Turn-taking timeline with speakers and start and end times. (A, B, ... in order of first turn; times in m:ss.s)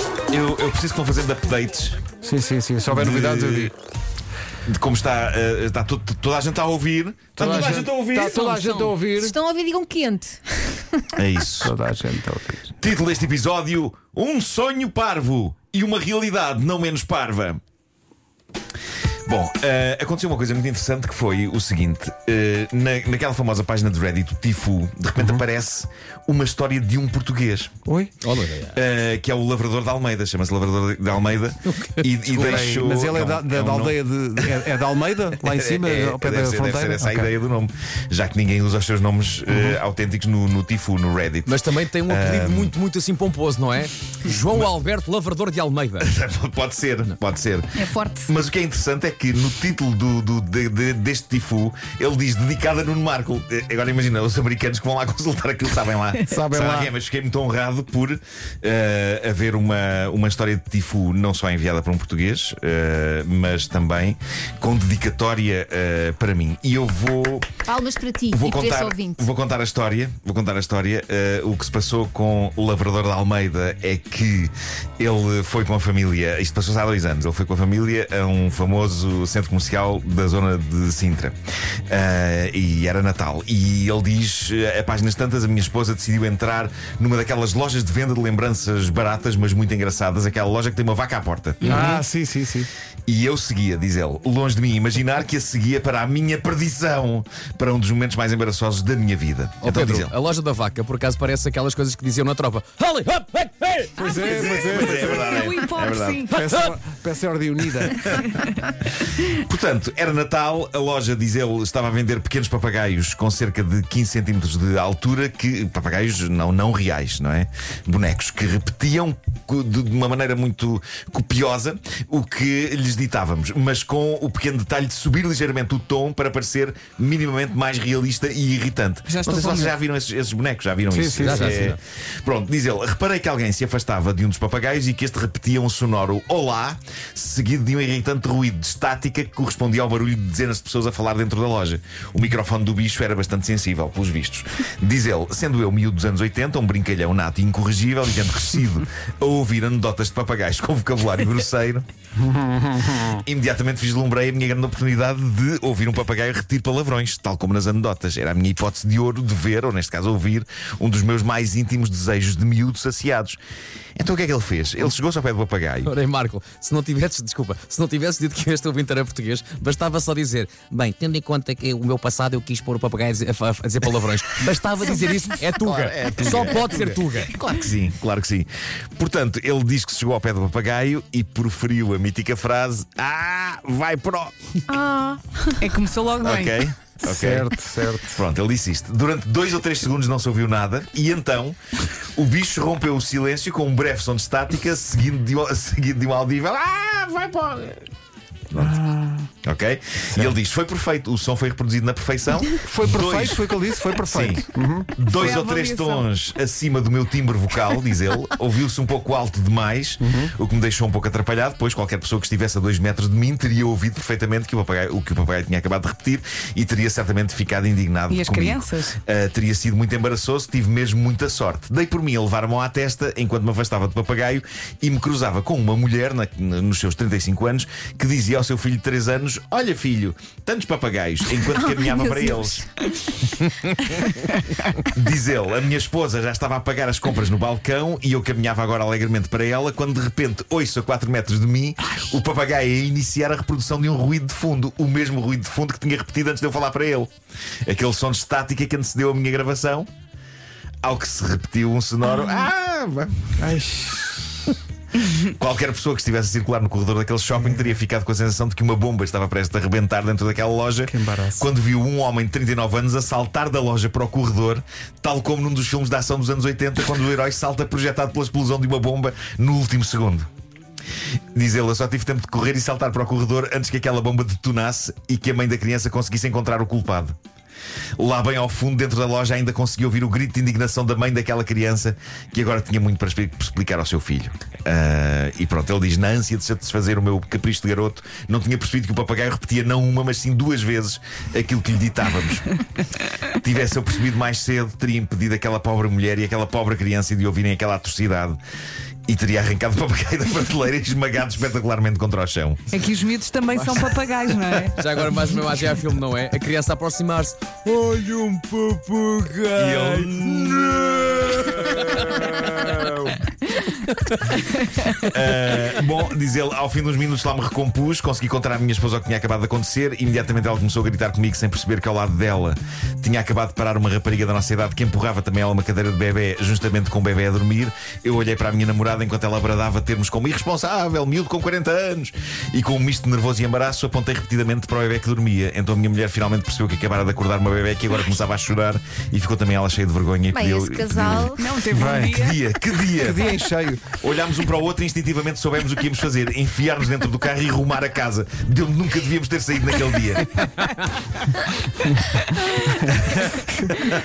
0:00.3-0:02.0 A
0:02.2-0:03.7 B
0:02.9-0:03.7 A
0:04.7-0:08.9 A
0:07.4-0:09.4 B
0:09.1-0:11.1 C
0:11.2-0:11.7 A
0:11.6-0:12.7 B
0:12.8-0:17.6 A
0:19.3-0:27.7 A
0:25.2-0:25.4 B
0:27.8-0:28.1 B
0:28.2-0:28.8 D
0:28.7-0:34.6 A
0:31.6-0:32.8 D
0:32.4-0:37.3 B
0:35.4-0:42.7 A
0:39.5-0:39.8 B
0:41.4-0:46.1 D
0:46.0-1:07.6 A
0:47.9-0:48.3 E
0:56.2-0:56.9 B
1:07.6-1:09.2 C
1:08.3-1:21.4 A
1:21.9-1:32.0 A
1:31.6-1:32.7 B
1:33.1-1:40.1 A
1:39.6-1:44.2 D
1:44.0-1:45.4 B
1:44.2-1:46.3 A
1:44.7-1:46.3 E
1:46.3-1:48.1 B
1:46.4-1:46.7 D
1:49.2-2:31.8 A
2:09.1-2:09.7 E
2:10.9-2:11.7 B
2:11.2-2:11.8 D
2:32.2-2:33.2 B
2:33.0-2:43.4 A
2:44.0-2:45.9 A
2:45.8-2:57.3 D
2:55.6-3:04.6 A
3:04.7-3:05.7 C
3:05.6-3:06.6 E
3:06.2-3:07.5 A
3:07.0-3:08.2 B
3:08.1-3:11.6 A
3:12.2-3:17.8 A
3:18.5-3:18.8 A
3:18.5-3:19.3 B
3:19.4-3:52.7 A
3:22.6-3:24.9 B
3:25.2-3:26.1 E
3:30.0-3:30.3 B
3:38.1-3:39.0 E
3:51.7-3:52.6 C
3:53.4-3:54.1 A
3:54.8-4:07.1 A
4:07.6-4:09.9 A
4:10.8-4:13.4 A
4:13.4-4:14.5 B
4:15.2-4:30.3 A
4:17.4-4:17.6 B
4:20.8-4:21.5 B
4:31.3-4:37.1 A
4:38.0-4:52.6 A
4:53.4-4:58.4 A
4:59.1-5:02.6 A
5:02.7-5:04.8 E
5:03.5-5:13.1 D
5:09.6-5:13.2 A
5:13.9-5:14.4 D
5:15.1-5:43.3 A
5:40.3-5:41.5 C
5:41.4-5:42.4 E
5:41.7-5:42.1 B
5:43.0-5:43.8 B
5:44.0-5:50.4 A
5:52.8-5:53.8 B